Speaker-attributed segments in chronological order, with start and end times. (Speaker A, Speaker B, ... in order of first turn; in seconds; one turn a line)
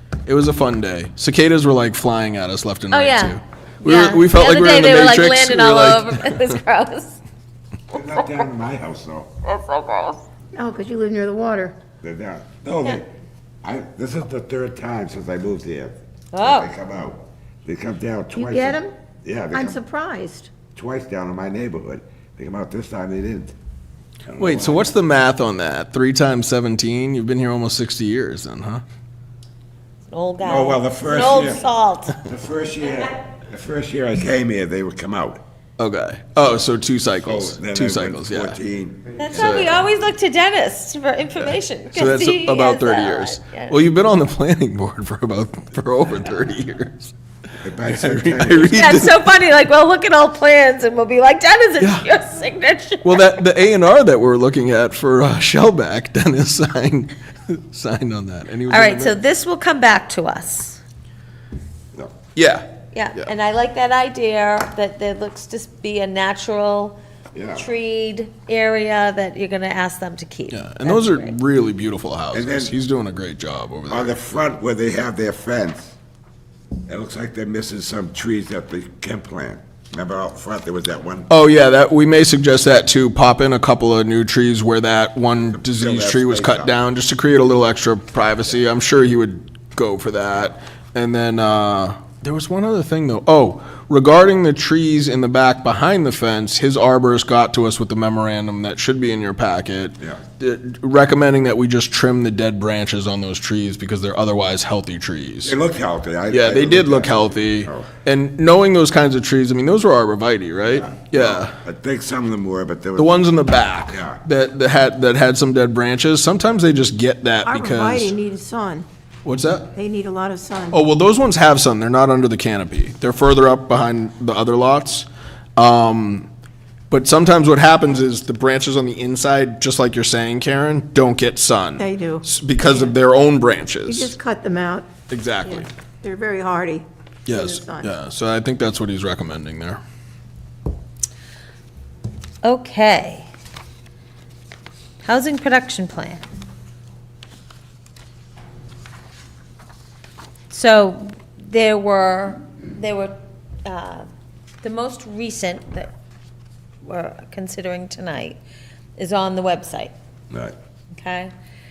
Speaker A: 0.2-6.5
Speaker B: 2.9-7.2
Speaker C: 7.9-9.3
Speaker B: 9.4-10.2
Speaker D: 10.5-11.8
Speaker C: 12.0-13.1
Speaker C: 13.6-19.8
Speaker B: 16.3-16.7
Speaker D: 18.4-18.9
Speaker D: 19.5-20.5
Speaker C: 20.7-23.5
Speaker C: 24.2-24.9
Speaker A: 24.4-28.8
Speaker B: 30.1-32.1
Speaker C: 30.4-31.7
Speaker C: 32.2-35.4
Speaker A: 35.8-38.6
Speaker C: 37.2-39.8
Speaker B: 39.2-43.8
Speaker A: 39.3-39.8
Speaker A: 41.9-47.1
Speaker C: 47.6-49.0
Speaker A: 47.8-49.1
Speaker B: 48.7-53.4
Speaker A: 51.8-52.1
Speaker A: 53.0-59.2
Speaker B: 58.7-60.8
Speaker A: 62.3-63.3
Speaker B: 62.9-67.0
Speaker C: 67.3-67.7
Speaker B: 67.5-71.4
Speaker A: 70.5-74.2
Speaker C: 72.3-72.7
Speaker C: 73.9-76.0
Speaker C: 76.9-81.3
Speaker A: 81.3-105.5
Speaker C: 85.5-86.7
Speaker C: 105.4-107.9
Speaker A: 106.3-111.5
Speaker C: 110.7-113.3
Speaker A: 113.0-118.1
Speaker C: 113.8-114.2
Speaker D: 117.4-118.9
Speaker A: 119.2-119.7
Speaker D: 119.7-120.8
Speaker A: 120.7-126.3
Speaker A: 126.9-134.2
Speaker D: 131.8-132.9
Speaker D: 133.8-134.9
Speaker A: 135.1-135.7
Speaker D: 135.5-137.9
Speaker A: 137.2-139.8
Speaker B: 142.4-143.3
Speaker B: 145.0-146.2
Speaker B: 150.5-154.1
Speaker B: 154.6-155.9
Speaker B: 156.8-158.4
Speaker B: 159.0-159.9
Speaker B: 160.9-161.3